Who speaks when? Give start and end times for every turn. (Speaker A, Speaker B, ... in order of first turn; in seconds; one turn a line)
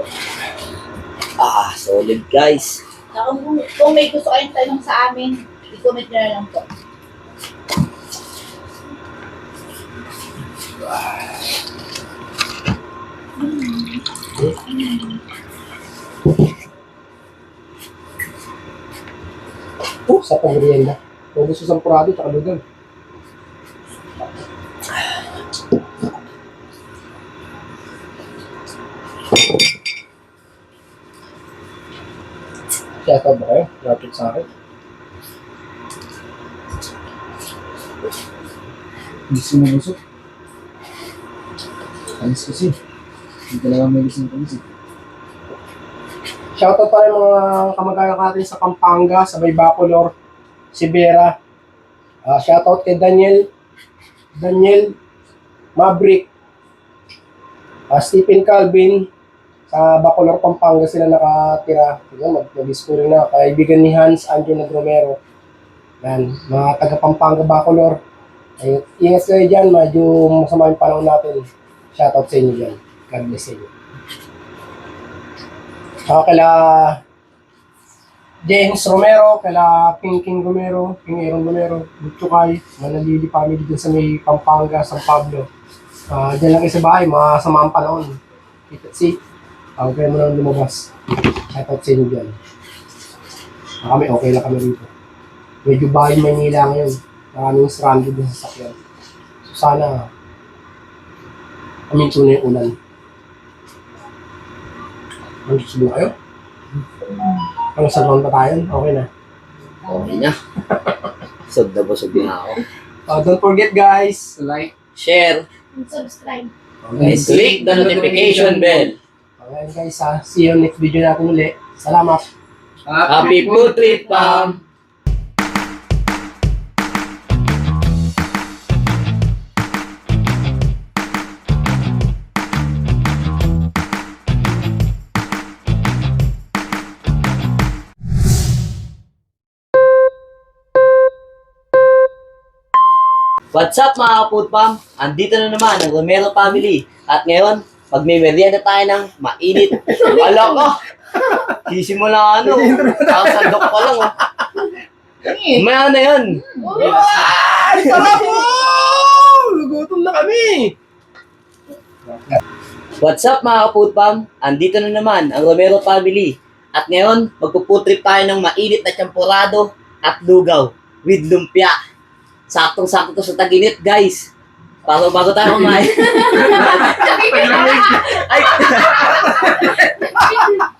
Speaker A: 1.4-2.8
Speaker B: 3.1-6.7
Speaker B: 13.4-14.0
Speaker B: 14.7-15.1
Speaker C: 20.1-22.6
Speaker C: 33.0-34.5
Speaker D: 39.3-40.0
Speaker D: 42.2-42.8
Speaker D: 43.5-44.6
Speaker C: 46.6-50.1
Speaker C: 50.7-51.4
Speaker C: 52.2-53.5
Speaker C: 54.4-55.0
Speaker C: 55.8-56.3
Speaker C: 57.9-59.1
Speaker C: 59.7-65.2
Speaker C: 66.0-68.0
Speaker C: 68.6-73.7
Speaker C: 76.1-77.0
Speaker C: 78.5-85.5
Speaker C: 86.1-88.2
Speaker C: 88.7-89.2
Speaker C: 89.8-90.9
Speaker C: 91.5-92.3
Speaker C: 93.8-94.9
Speaker C: 95.6-98.8
Speaker C: 99.5-100.1
Speaker C: 101.9-102.7
Speaker C: 105.5-106.1
Speaker C: 107.8-109.1
Speaker B: 109.8-110.2
Speaker A: 109.9-110.4
Speaker A: 111.5-112.6
Speaker C: 113.1-114.3
Speaker D: 114.4-114.7
Speaker A: 115.0-115.5
Speaker B: 115.8-116.5
Speaker C: 116.8-118.5
Speaker A: 117.0-119.0
Speaker D: 117.0-118.9
Speaker C: 119.4-122.3
Speaker D: 122.9-124.5
Speaker A: 123.1-124.6
Speaker A: 143.5-150.8
Speaker A: 151.7-154.1
Speaker C: 152.4-153.9
Speaker B: 155.3-155.6
Speaker A: 155.5-156.4
Speaker B: 156.6-157.3
Speaker C: 156.7-160.8
Speaker D: 156.8-157.3
Speaker A: 157.7-158.2
Speaker A: 163.0-171.8
Speaker A: 172.5-174.3
Speaker A: 174.9-179.5
Speaker B: 176.4-177.7
Speaker C: 179.1-180.2